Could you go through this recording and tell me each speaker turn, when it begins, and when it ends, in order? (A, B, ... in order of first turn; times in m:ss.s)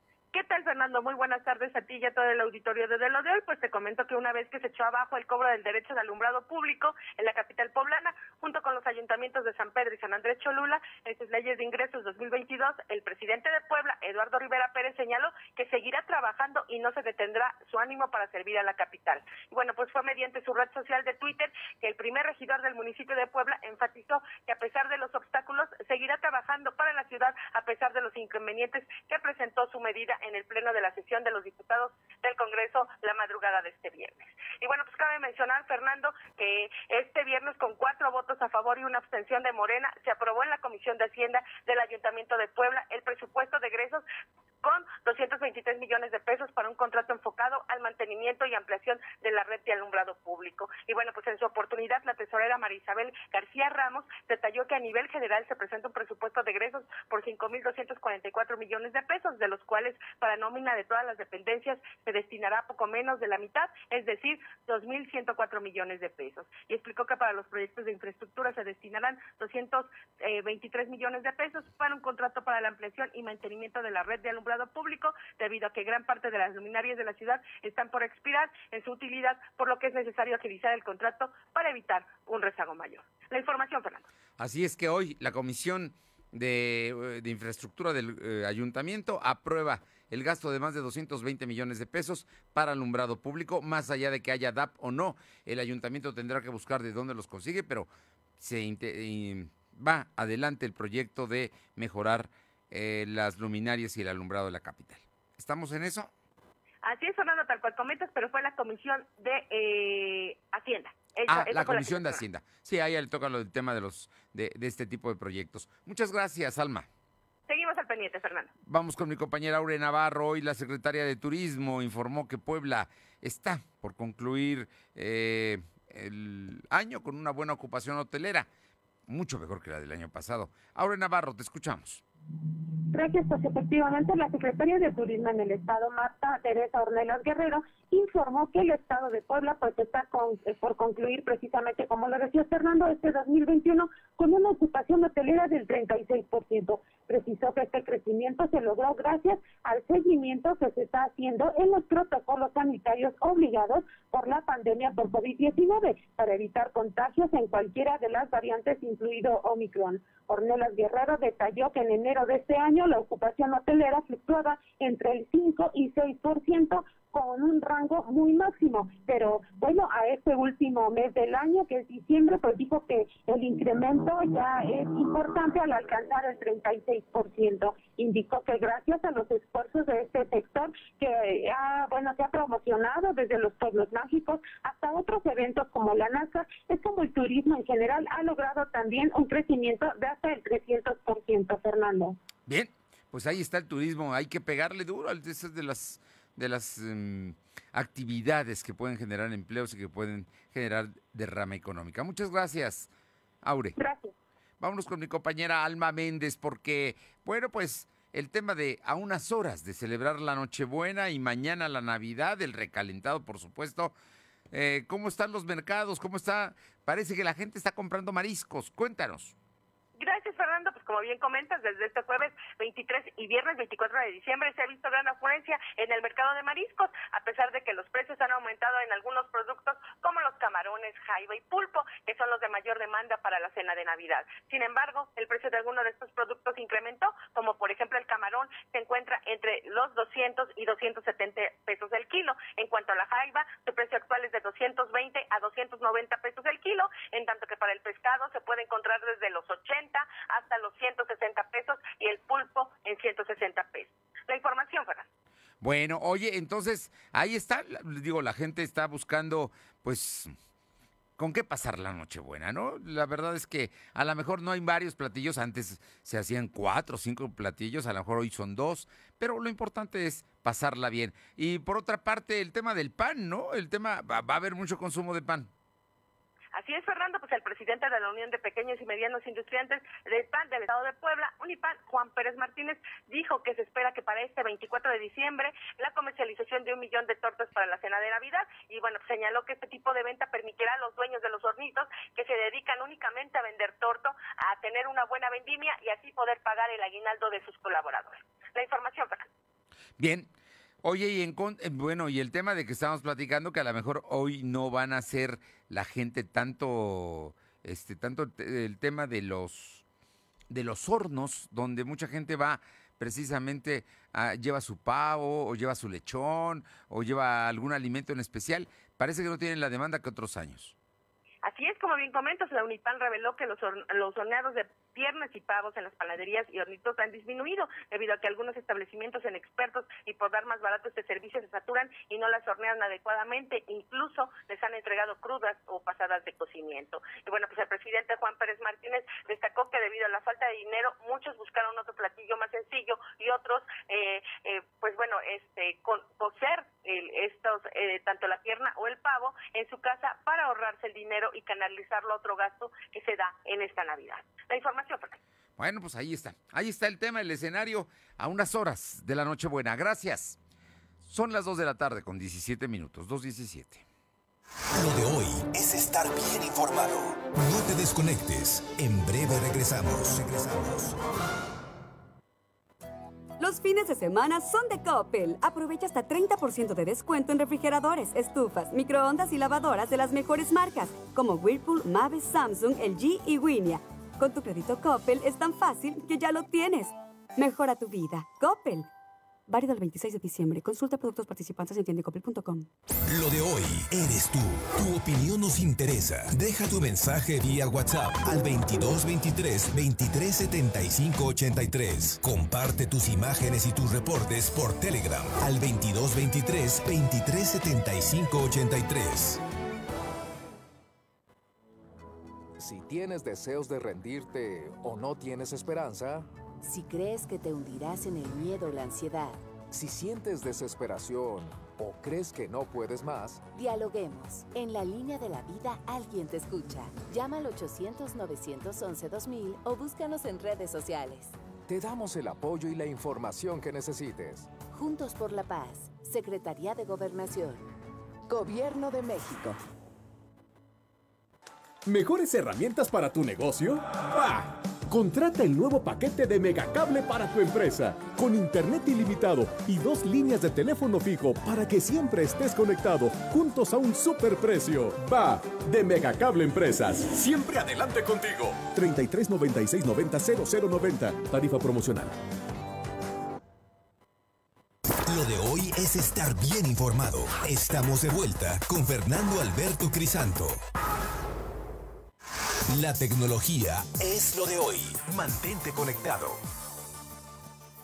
0:00.3-0:44.0 A
0:44.6-1:24.0 A
1:24.4-1:46.1 B
1:46.8-1:52.2 A
1:51.3-1:56.9 B
1:57.5-1:58.5 A
1:58.7-2:08.5 B
2:09.1-2:12.0 B
2:12.9-3:12.2 C
3:12.4-3:22.9 B
3:23.4-3:23.7 B
3:23.8-3:24.1 C
3:24.6-3:33.9 B
3:34.5-3:39.3 B
3:40.0-4:15.1 A
4:15.6-4:20.3 B
4:21.2-4:35.5 B
4:36.5-4:59.3 A
5:00.0-5:00.3 B
5:00.8-5:09.8 B
5:10.5-5:20.7 B
5:21.4-5:55.2 A
5:55.6-6:00.4 B
6:01.0-6:03.8 B
6:04.7-6:11.0 D
6:13.4-6:28.9 E
6:29.5-6:32.7 E
6:33.0-6:49.4 D
6:52.6-6:56.3 F
6:56.6-6:59.4 G
6:59.7-7:03.4 F
7:03.5-7:11.4 G
7:11.7-7:14.5 F
7:14.7-7:17.7 G
7:18.3-7:19.6 G
7:21.8-7:42.1 H
7:45.0-7:50.6 D
7:52.7-7:56.4 D